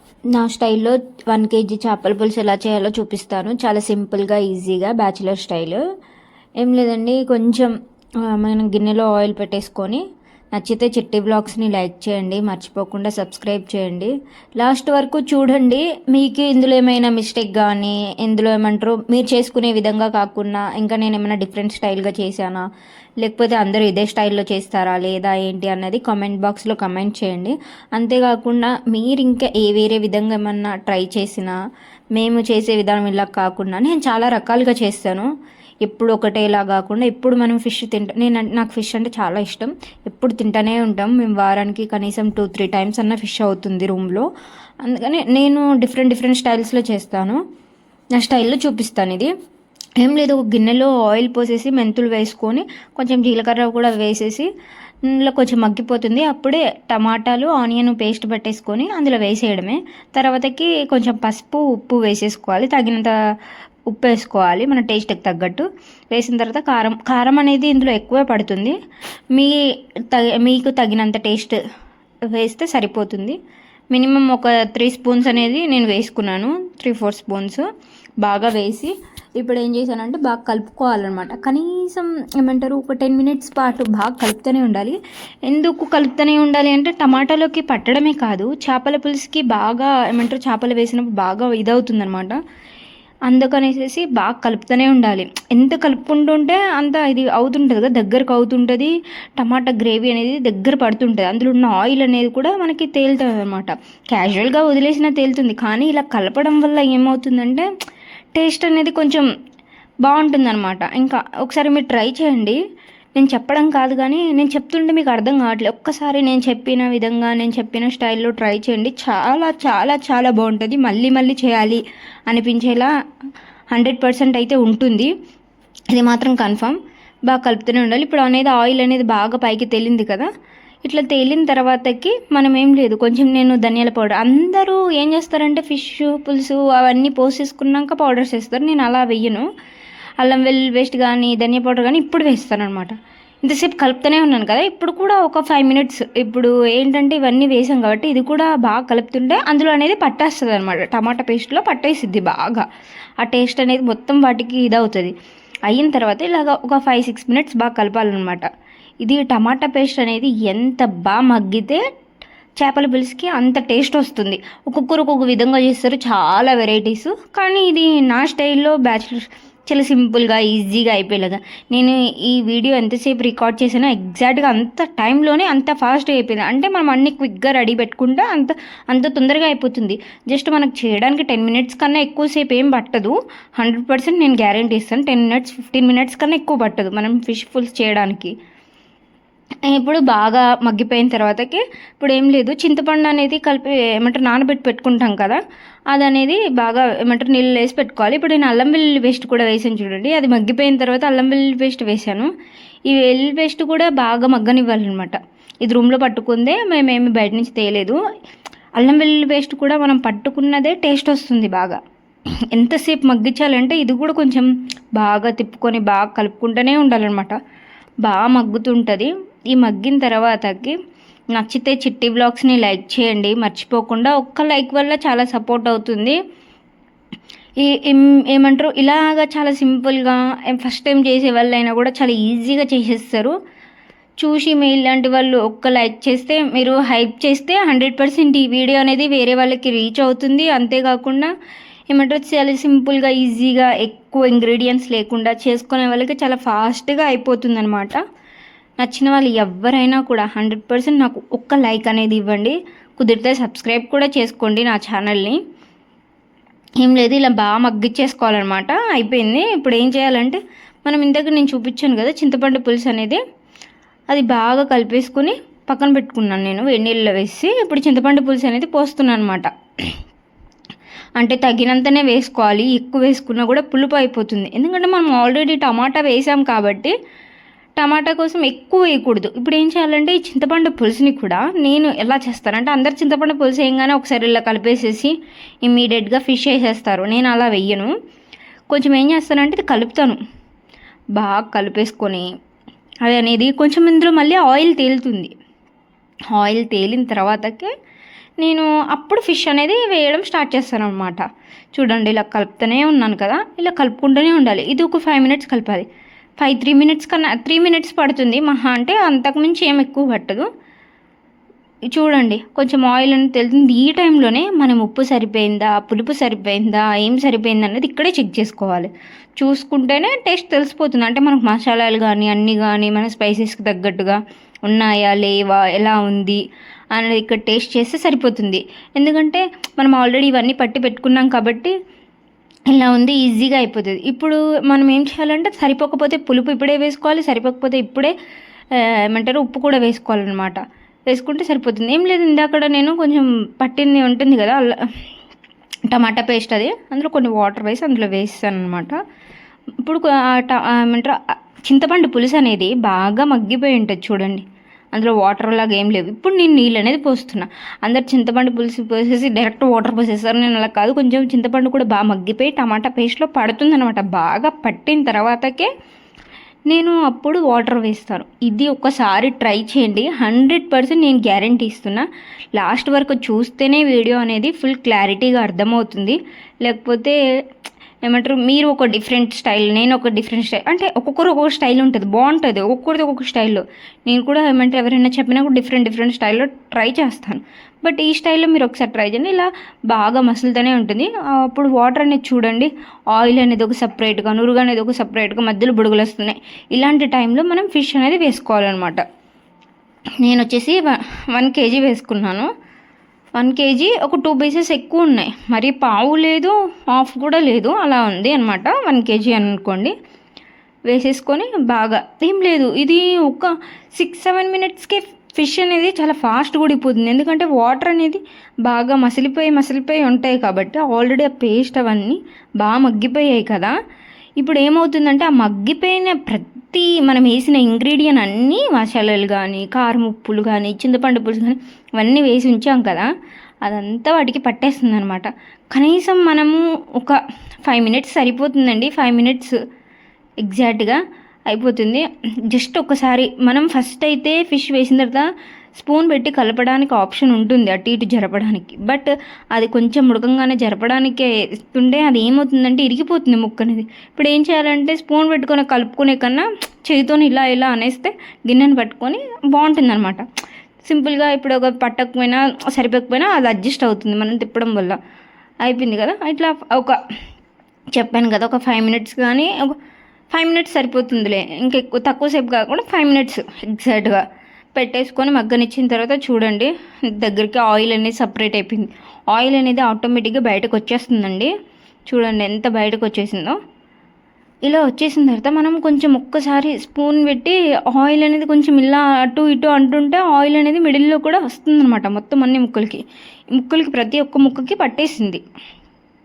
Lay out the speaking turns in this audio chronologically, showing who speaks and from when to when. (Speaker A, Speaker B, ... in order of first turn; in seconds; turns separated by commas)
Speaker A: 0.3-5.8, Speaker A: 6.6-22.6, Speaker A: 23.2-31.6, Speaker A: 32.1-35.3, Speaker A: 35.8-44.3, Speaker A: 44.8-47.4, Speaker A: 48.1-49.3, Speaker A: 50.0-54.5, Speaker A: 55.1-63.1, Speaker A: 63.9-68.8, Speaker A: 69.3-69.6, Speaker A: 70.1-71.6, Speaker A: 72.3-73.4, Speaker A: 73.9-77.7, Speaker A: 78.2-92.4, Speaker A: 93.3-107.7, Speaker A: 108.3-109.2, Speaker A: 110.0-112.6, Speaker A: 113.2-122.9, Speaker A: 123.7-125.1, Speaker A: 125.9-130.3, Speaker A: 130.8-139.5, Speaker A: 140.2-142.9, Speaker A: 143.4-152.7, Speaker A: 153.2-155.1, Speaker A: 155.7-158.4, Speaker A: 159.0-161.8, Speaker A: 162.6-188.3, Speaker A: 189.7-195.4, Speaker A: 195.9-202.3, Speaker A: 202.9-208.0, Speaker A: 208.8-211.8, Speaker A: 212.5-217.3, Speaker A: 218.0-220.8, Speaker A: 221.3-226.2, Speaker A: 227.6-233.3, Speaker A: 234.2-241.3, Speaker A: 241.9-248.0, Speaker A: 248.8-255.4, Speaker A: 256.8-263.2, Speaker A: 264.1-269.5, Speaker A: 271.2-276.9, Speaker A: 277.8-285.1, Speaker A: 285.6-287.9, Speaker A: 288.7-290.2, Speaker A: 291.1-292.3, Speaker A: 293.0-295.3, Speaker A: 296.3-297.7, Speaker A: 298.4-301.2, Speaker A: 301.7-305.9, Speaker A: 306.4-310.5, Speaker A: 311.9-326.4, Speaker A: 326.9-331.7, Speaker A: 332.7-338.1, Speaker A: 338.7-344.7, Speaker A: 345.9-349.0, Speaker A: 349.8-365.7, Speaker A: 366.7-377.2, Speaker A: 378.0-399.0, Speaker A: 400.2-402.5, Speaker A: 403.4-409.9, Speaker A: 410.9-423.7, Speaker A: 424.4-433.1, Speaker A: 433.6-439.5, Speaker A: 440.4-460.2, Speaker A: 460.8-465.0, Speaker A: 465.6-467.0, Speaker A: 467.9-469.7, Speaker A: 470.3-474.2, Speaker A: 474.8-481.5, Speaker A: 482.1-483.6, Speaker A: 484.6-493.0, Speaker A: 493.5-495.4